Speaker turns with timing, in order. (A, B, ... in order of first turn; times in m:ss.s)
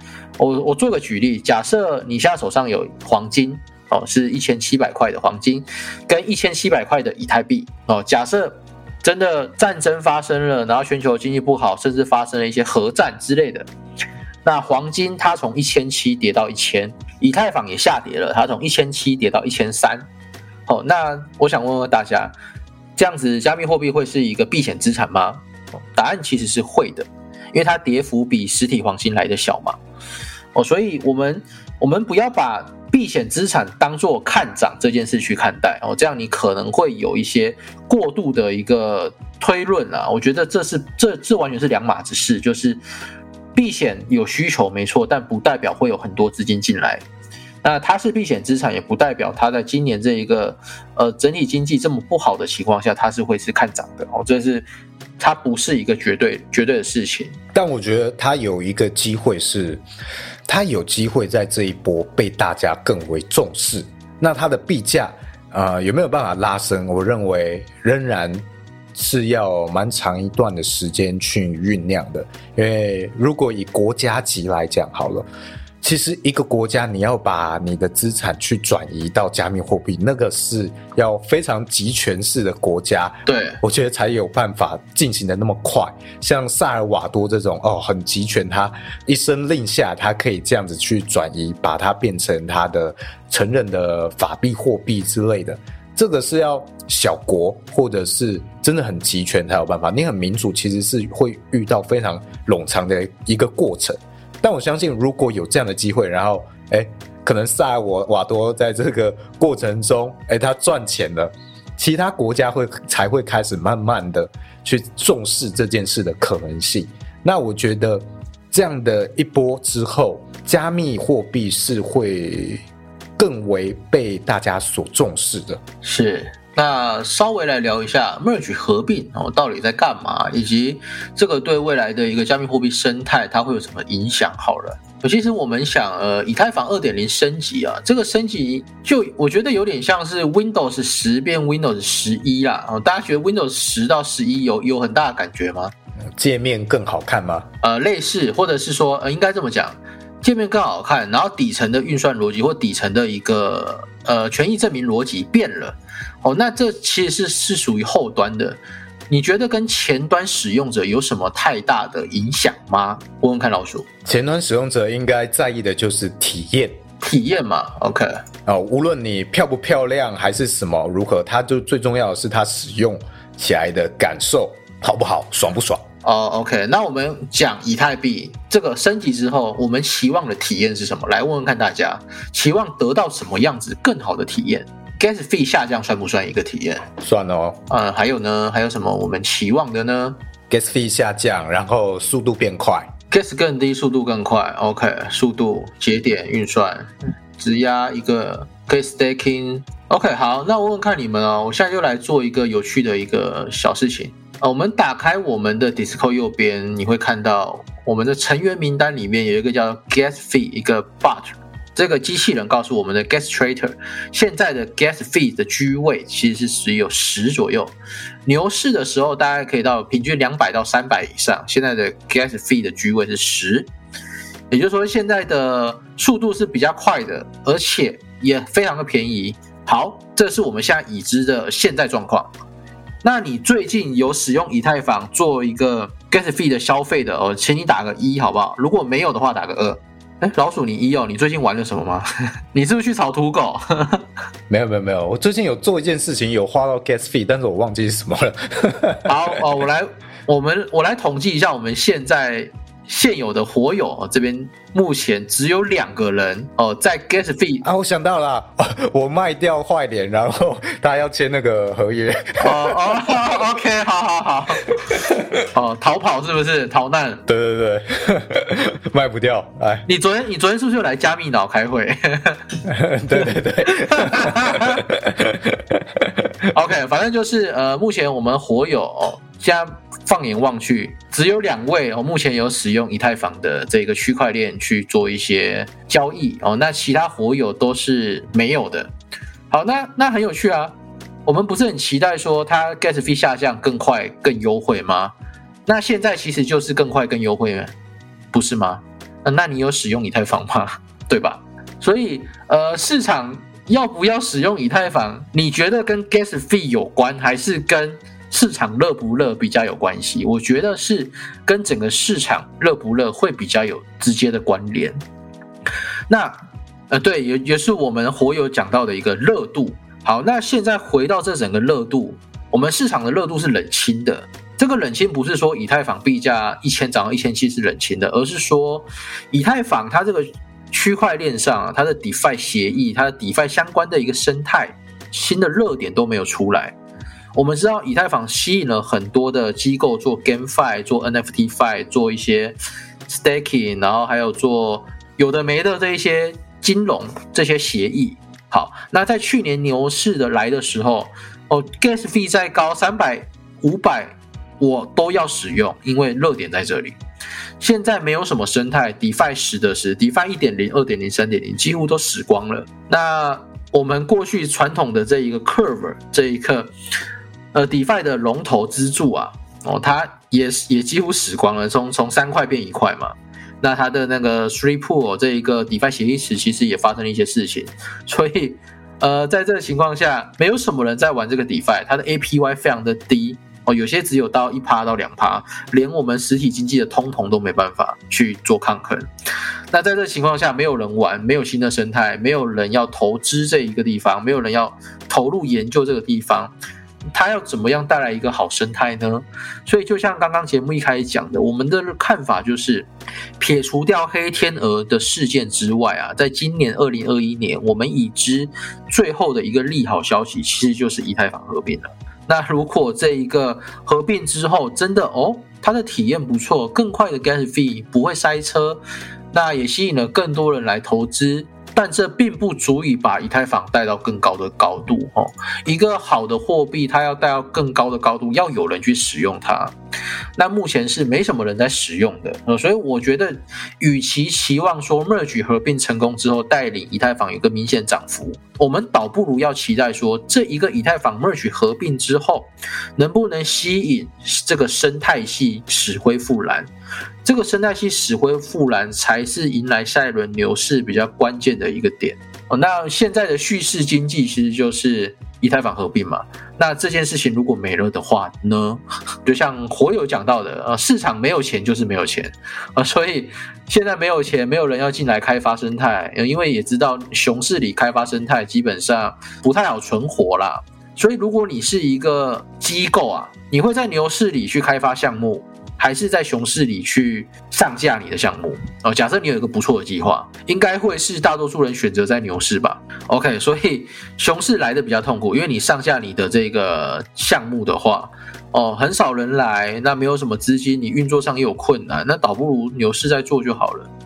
0:00.4-0:13.7 A
0:14.4-0:20.1 A
0:20.7-0:22.3 A
0:23.0-0:25.4 A
0:25.9-0:29.8 A
0:30.5-0:42.8 A
0:43.5-0:47.0 A
0:47.6-0:54.6 A
0:55.2-0:57.4 A
0:57.5-0:59.8 B
1:00.5-1:15.2 B
1:15.8-2:02.6 B
1:23.2-1:23.6 A
2:03.2-2:05.6 B
2:05.8-2:25.7 A
2:26.2-2:27.5 B
2:27.6-2:43.9 A
2:44.0-2:46.8 B
2:47.0-2:48.2 A
2:48.4-2:55.8 B
2:56.0-3:06.9 A
3:07.0-3:07.6 B
3:07.7-3:10.2 A
3:10.5-3:12.9 B
3:13.1-3:37.7 A
3:38.2-3:43.7 A
3:44.5-3:52.3 A
3:53.0-4:04.0 A
4:04.5-4:09.3 B
4:09.0-4:17.6 A
4:17.6-4:22.8 B
4:22.4-4:24.7 A
4:25.5-4:27.2 A
4:27.3-4:29.8 B
4:29.8-4:32.6 A
4:32.6-4:36.2 B
4:33.2-4:34.8 A
4:36.5-4:48.9 A
4:49.5-4:50.7 A
4:51.2-4:55.1 A
4:55.6-4:57.7 A
4:58.3-5:15.0 A
5:16.1-5:16.4 A
5:16.9-5:36.8 A
5:37.3-5:57.0 A
5:57.6-6:06.7 A
6:07.5-6:29.1 A
6:29.7-6:36.5 A
6:37.1-7:09.7 A
7:10.4-7:26.7 A
7:27.2-8:13.9 A